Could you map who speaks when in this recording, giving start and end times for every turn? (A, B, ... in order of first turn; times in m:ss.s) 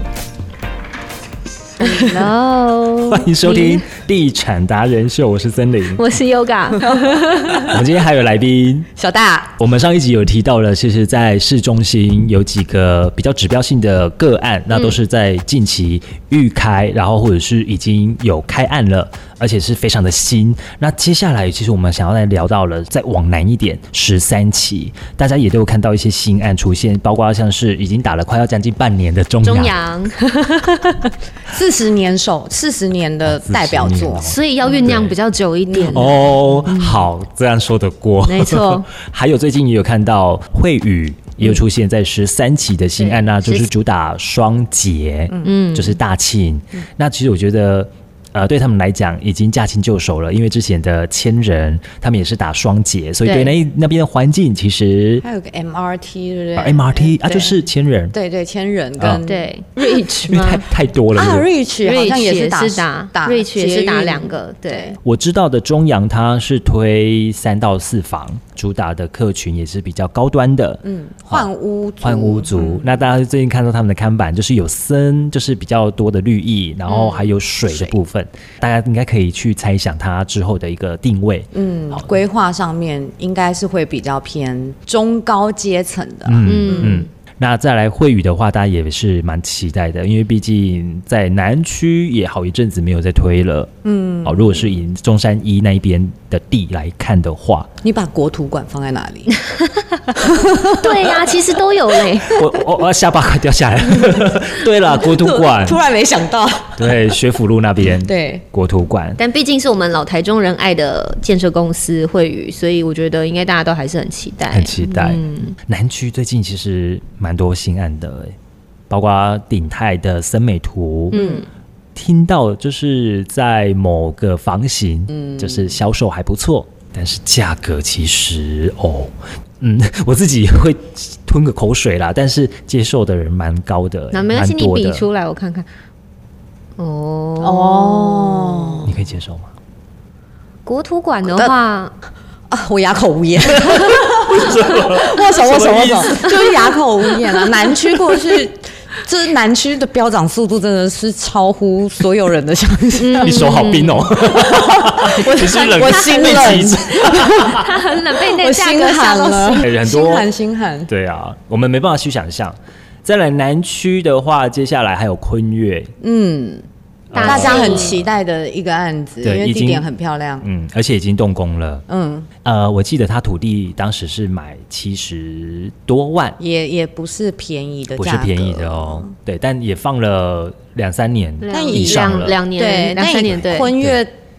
0:01.8-0:03.9 A
0:01.8-0:02.3 B
0:03.1-0:06.1 C
0:06.0-0:07.8 A
0:06.8-0:07.2 B
0:07.6-0:08.9 C
0:09.0-0:09.5 B
0:09.6-0:29.8 C
0:14.7-0:15.0 A
0:29.4-0:31.1 A
0:31.4-0:34.9 B
0:33.3-0:35.2 C
0:34.2-0:37.0 A
0:35.7-0:36.2 B
0:35.9-0:55.2 C
0:38.2-0:38.8 A
0:43.0-0:43.7 A
0:45.3-0:45.6 B
0:45.4-0:46.0 A
0:53.2-0:53.5 A
0:55.2-0:57.6 B
0:56.6-0:58.1 C
0:58.1-1:05.0 B
0:59.0-0:59.2 C
0:59.2-1:00.6 A
1:00.3-1:01.5 C
1:01.8-1:05.0 A
1:05.0-1:11.5 C
1:10.8-1:12.9 B
1:12.0-1:22.1 C
1:16.9-1:17.3 A
1:17.7-1:18.0 B
1:21.5-1:27.1 B
1:26.2-1:33.7 C
1:26.4-1:27.0 A
1:33.8-1:34.7 B
1:34.2-1:37.7 C
1:37.8-1:39.4 B
1:39.4-1:42.4 A
1:40.1-1:41.3 B
1:42.2-1:45.8 C
1:44.9-1:47.1 B
1:46.8-1:49.2 C
1:48.0-1:48.4 B
1:49.2-1:55.6 A
1:54.5-1:58.3 C
1:58.9-2:01.2 C
2:01.1-2:01.4 A
2:01.1-2:01.4 B
2:01.9-2:15.1 C
2:05.1-2:05.7 B
2:14.1-2:15.7 A
2:16.8-2:18.9 A
2:17.4-2:18.9 B
2:18.8-2:19.5 C
2:20.6-2:21.9 A
2:21.2-2:21.5 B
2:22.5-2:40.9 B
2:23.5-2:26.5 C
2:33.0-2:34.1 A
2:33.2-2:37.7 C
2:35.8-2:39.8 A
2:39.6-2:40.3 C
2:40.9-2:45.9 C
2:46.0-2:46.6 B
2:47.1-2:48.0 C
2:47.1-2:48.0 A
2:47.2-2:50.5 B
2:49.2-2:49.9 C
2:50.4-2:51.8 C
2:51.9-2:52.3 B
2:52.4-2:56.4 C
2:56.4-2:59.1 B
2:58.0-3:02.4 C
3:01.4-3:03.8 A
3:01.5-3:04.1 B